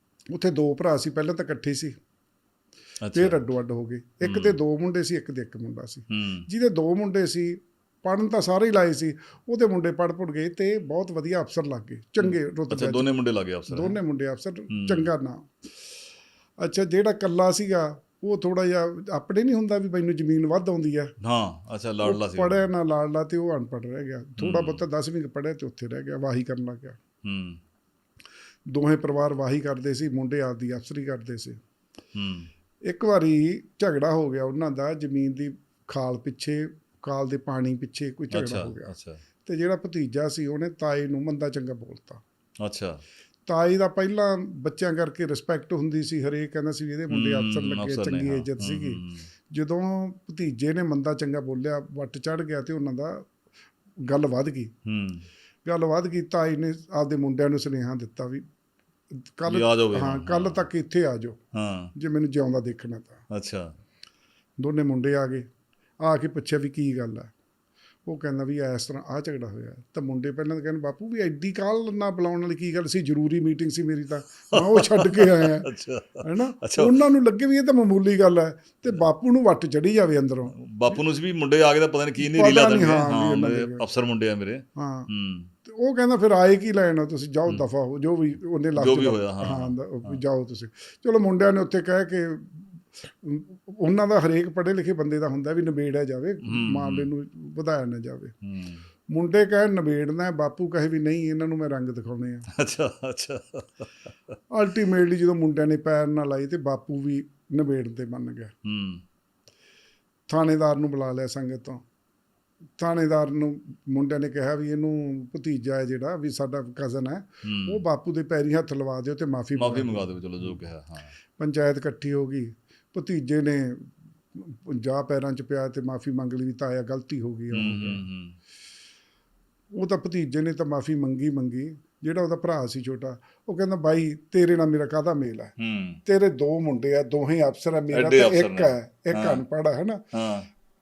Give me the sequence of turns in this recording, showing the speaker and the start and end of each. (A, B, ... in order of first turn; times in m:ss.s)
0:00.3-0:01.9 A
0:03.0-0:03.4 B
0:03.1-0:13.1 A
0:04.2-0:04.5 B
0:06.1-0:06.4 B
0:12.2-0:14.0 B
0:13.7-0:15.6 A
0:14.7-0:15.1 B
0:16.6-0:21.1 A
0:21.2-0:22.6 B
0:22.0-0:27.0 A
0:24.4-0:24.8 B
0:27.2-0:27.6 B
0:28.7-0:31.6 A
0:32.1-0:32.5 B
0:32.9-0:42.2 A
0:38.3-0:39.2 B
0:42.6-0:43.0 B
0:43.5-0:53.2 A
0:47.1-0:49.3 B
0:54.1-0:54.7 A
0:54.8-0:55.2 B
0:55.6-0:58.4 A
0:59.2-1:01.4 A
0:59.5-1:00.7 B
1:01.5-1:01.9 B
1:01.9-1:03.2 A
1:03.3-1:03.7 B
1:04.6-1:05.4 A
1:06.0-1:07.3 A
1:08.0-1:15.7 A
1:14.5-1:17.0 B
1:16.2-1:20.6 A
1:20.5-1:25.5 B
1:22.2-1:23.8 A
1:24.8-1:25.1 A
1:25.6-1:38.3 A
1:28.8-1:30.2 B
1:36.4-1:37.1 B
1:38.4-1:38.8 B
1:39.1-1:42.5 A
1:42.5-1:43.9 B
1:44.5-1:48.5 A
1:48.6-1:49.0 B
1:50.3-1:51.8 A
1:52.8-2:00.6 A
1:57.4-1:57.8 B
1:59.6-2:01.1 B
2:01.4-2:08.0 A
2:07.5-2:08.4 B
2:09.7-2:15.5 A
2:15.6-2:16.0 B
2:16.0-2:20.0 A
2:17.9-2:19.4 B
2:20.1-2:20.5 B